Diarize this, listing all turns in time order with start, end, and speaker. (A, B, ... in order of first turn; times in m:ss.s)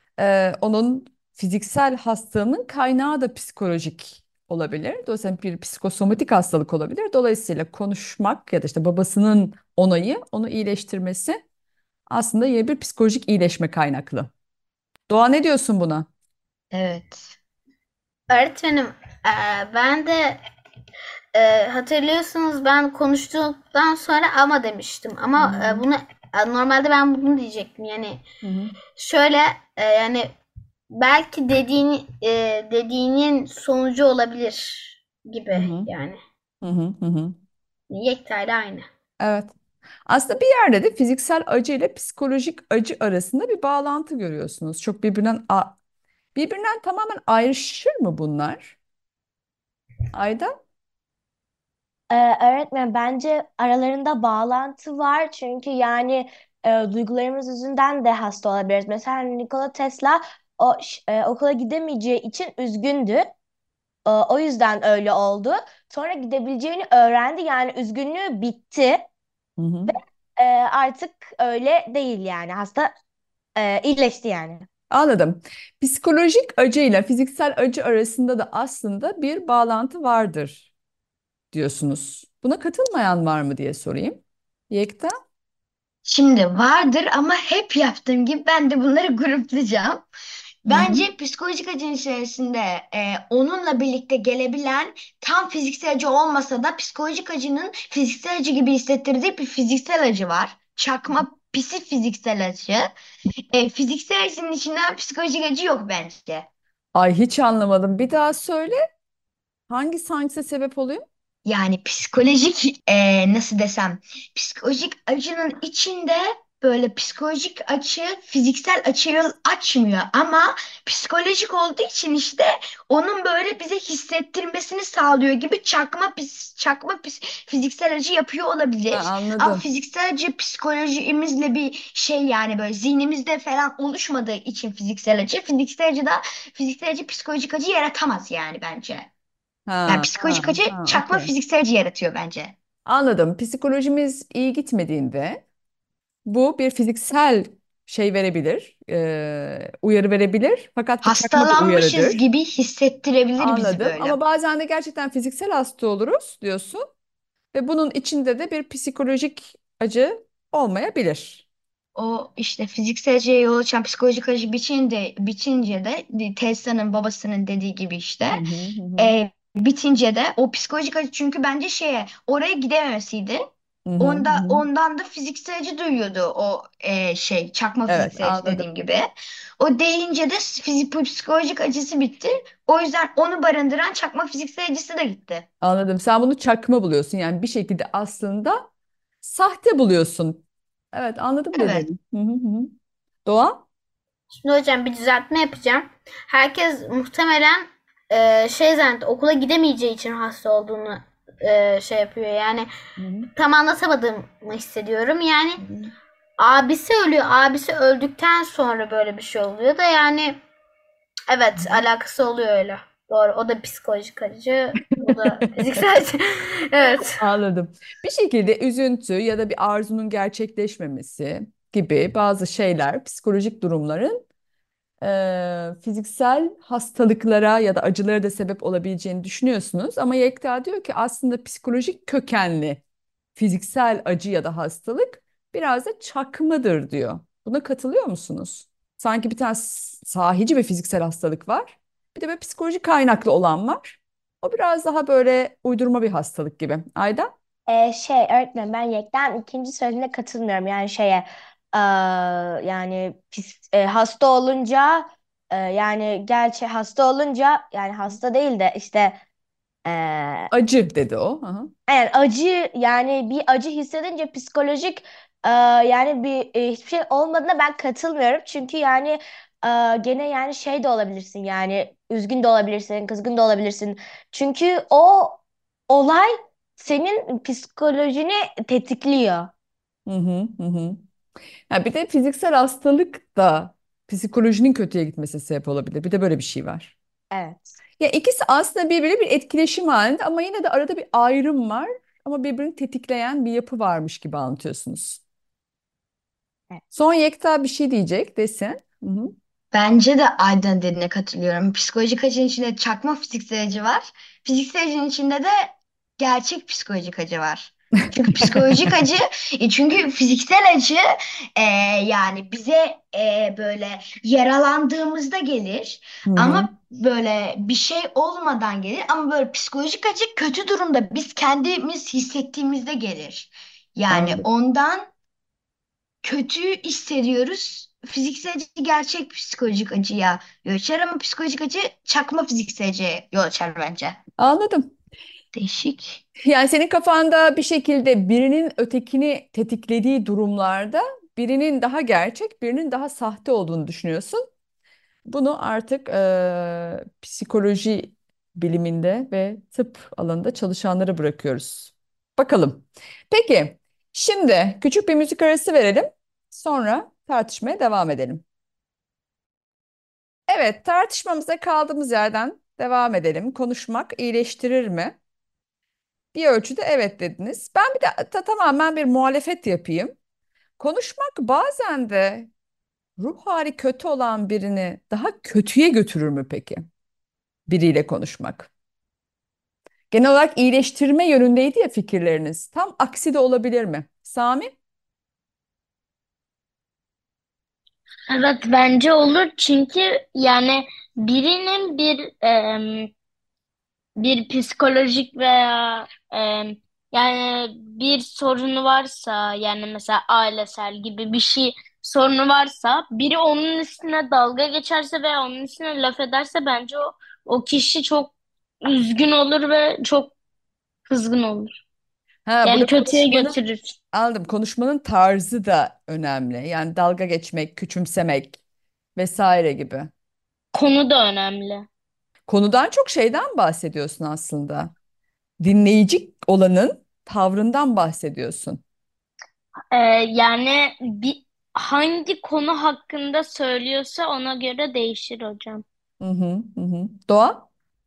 0:00.2-0:11.4 A
0:12.1-0:14.3 A
0:15.1-0:16.1 A
0:16.7-0:17.3 B
0:18.3-0:20.4 C
0:21.3-0:28.2 C
0:25.4-0:25.8 A
0:28.4-0:28.7 A
0:28.9-0:30.3 C
0:30.9-0:36.2 C
0:35.5-0:35.9 A
0:36.6-0:37.4 A
0:37.9-0:38.9 C
0:39.2-0:39.5 A
0:40.1-0:45.8 A
0:46.3-0:48.7 A
0:50.1-0:50.5 A
0:52.1-1:03.3 D
1:04.0-1:09.0 D
1:09.6-1:09.9 A
1:09.9-1:12.9 D
1:13.6-1:14.6 D
1:14.9-1:20.6 A
1:21.5-1:25.1 A
1:26.0-1:30.0 B
1:30.6-1:42.9 B
1:30.7-1:31.0 A
1:43.5-1:46.5 B
1:46.9-1:48.8 A
1:49.7-1:51.0 A
1:51.4-2:19.1 B
2:08.9-2:09.6 A
2:19.7-2:21.3 A
2:19.9-2:22.5 B
2:22.8-2:25.4 A
2:26.2-2:32.2 A
2:31.0-2:34.1 B
2:33.4-2:36.9 A
2:37.5-2:41.4 A
2:42.0-2:48.4 B
2:48.3-2:49.1 A
2:49.0-2:53.4 B
2:53.8-2:54.6 A
2:54.0-2:59.1 B
2:57.9-2:58.7 A
2:59.6-3:05.4 B
3:05.6-3:08.7 A
3:09.2-3:12.7 A
3:11.5-3:11.8 B
3:13.2-3:13.6 A
3:14.4-3:22.7 C
3:23.0-3:23.3 A
3:23.4-3:25.6 C
3:25.6-3:25.9 A
3:26.4-3:30.4 C
3:31.3-3:37.2 C
3:37.2-3:44.2 A
3:45.0-3:52.8 A
3:53.4-4:07.3 A
4:07.7-4:19.2 D
4:19.8-4:20.5 D
4:20.5-4:21.7 A
4:21.9-4:39.5 D
4:40.0-4:41.0 A
4:41.7-4:46.9 A
4:47.3-4:47.8 D
4:48.0-4:55.2 A
4:56.9-4:59.3 A
4:59.7-5:25.1 B
5:08.2-5:08.5 A
5:16.3-5:16.7 A
5:24.1-5:24.4 A
5:26.2-5:34.2 B
5:34.4-5:34.9 A
5:35.5-5:36.2 B
5:36.4-5:44.4 A
5:45.2-5:58.4 A
6:00.5-6:05.2 A
6:06.3-6:10.1 A
6:10.8-6:12.5 A
6:13.2-6:16.8 A
6:17.7-6:18.7 A
6:20.1-6:24.7 A
6:28.3-6:33.1 E
6:34.2-6:50.3 E
6:51.1-6:51.7 E
6:52.4-6:53.6 A
6:52.6-6:53.9 E
6:54.1-6:58.6 A
6:59.2-7:00.1 A
7:00.7-7:01.8 E
7:02.5-7:04.9 A
7:05.6-7:08.8 A
7:09.9-7:15.8 E
7:16.2-7:17.7 A